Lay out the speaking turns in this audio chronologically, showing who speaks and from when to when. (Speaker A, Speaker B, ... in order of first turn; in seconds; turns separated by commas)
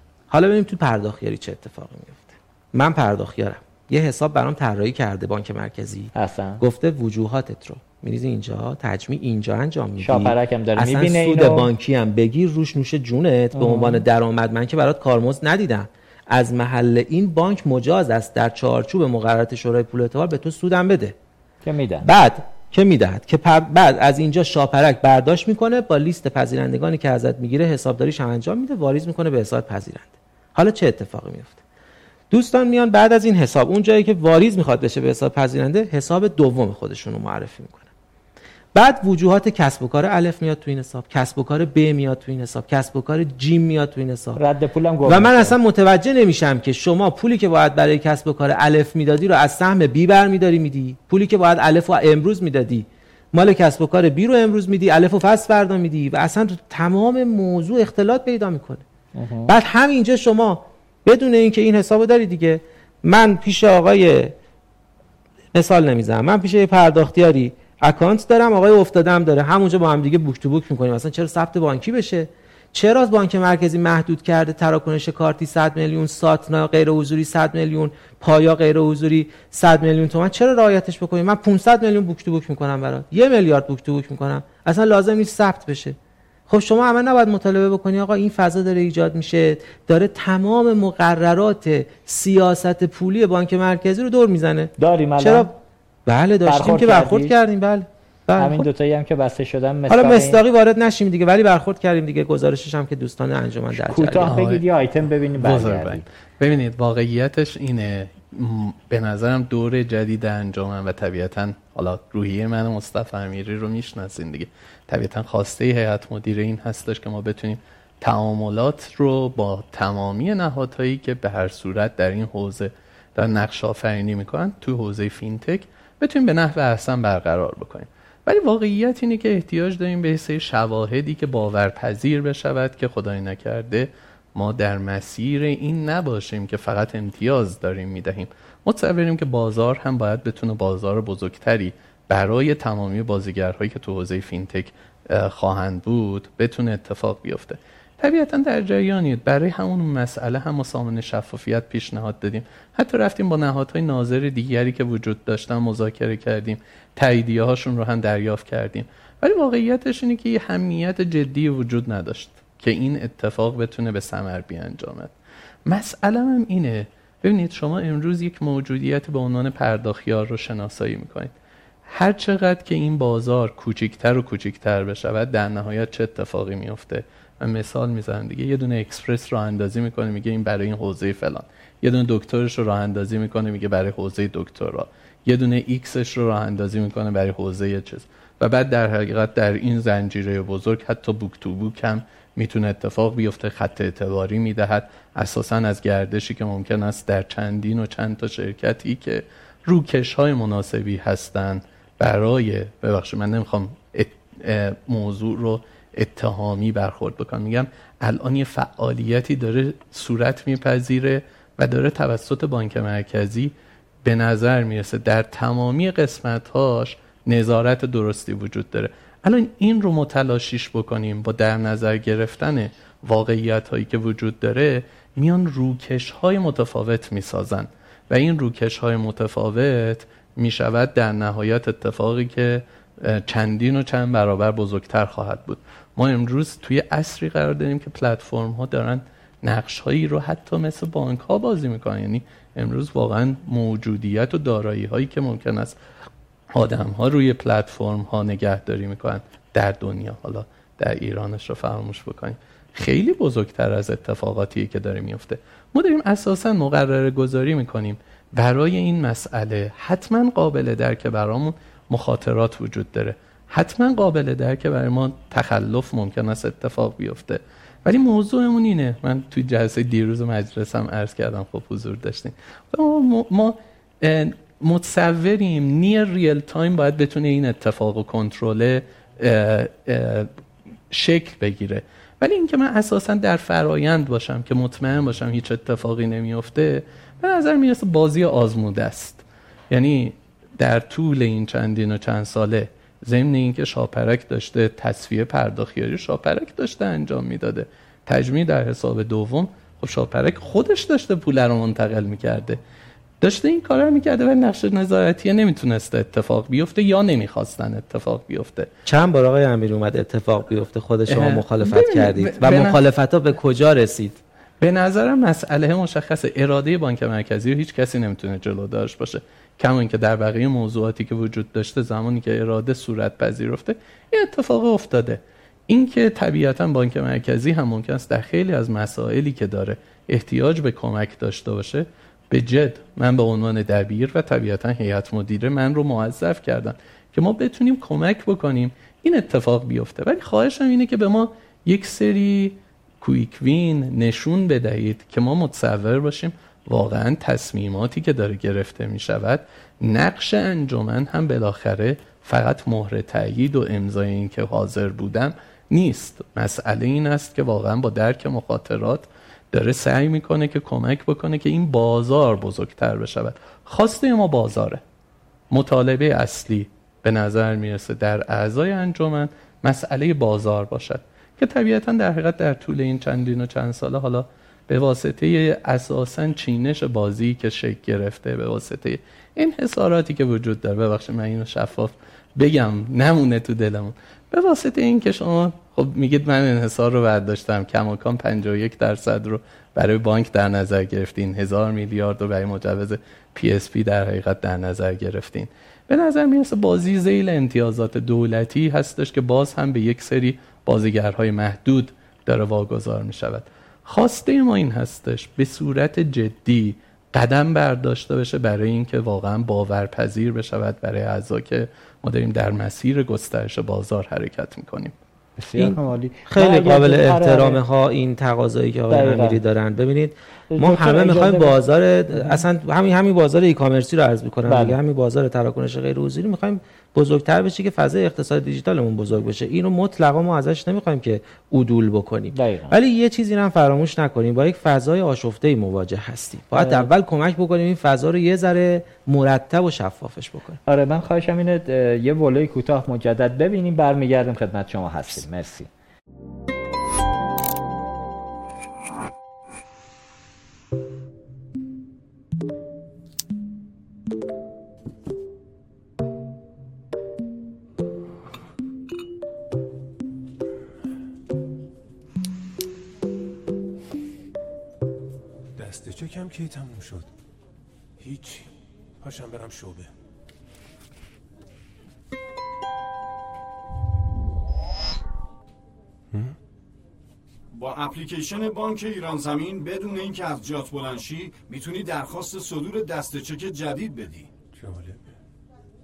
Speaker A: 0.3-21.1, Speaker B: 6.1-6.6, Speaker B: 10.0-11.7, Speaker B: 13.6-14.0, Speaker B: 21.6-22.1, Speaker A: 22.0-31.6, Speaker A: 32.3-37.9, Speaker A: 38.7-44.4, Speaker B: 44.4-45.5, Speaker A: 45.0-58.8, Speaker B: 59.1-59.5, Speaker A: 59.5-64.3, Speaker A: 65.5-86.0, Speaker A: 86.5-95.5, Speaker B: 94.8-95.5, Speaker A: 96.0-98.6, Speaker B: 96.5-97.3, Speaker B: 98.4-100.4, Speaker A: 99.9-104.4, Speaker B: 103.7-106.0, Speaker C: 104.2-104.6, Speaker C: 105.4-165.1, Speaker C: 165.7-171.3, Speaker C: 171.9-213.5, Speaker C: 214.0-245.8, Speaker C: 246.5-280.3, Speaker C: 280.9-302.6, Speaker C: 303.2-308.7, Speaker A: 308.9-314.2, Speaker C: 311.1-312.8, Speaker C: 314.6-364.8, Speaker C: 365.5-414.9, Speaker B: 415.4-417.6, Speaker A: 415.6-440.6, Speaker B: 418.9-419.4, Speaker B: 420.5-421.6, Speaker B: 424.5-424.8, Speaker B: 432.3-432.7, Speaker B: 436.6-436.9, Speaker B: 440.6-445.7, Speaker D: 465.6-467.1, Speaker D: 468.0-468.5, Speaker D: 469.0-469.9, Speaker E: 477.5-484.3, Speaker D: 484.5-485.0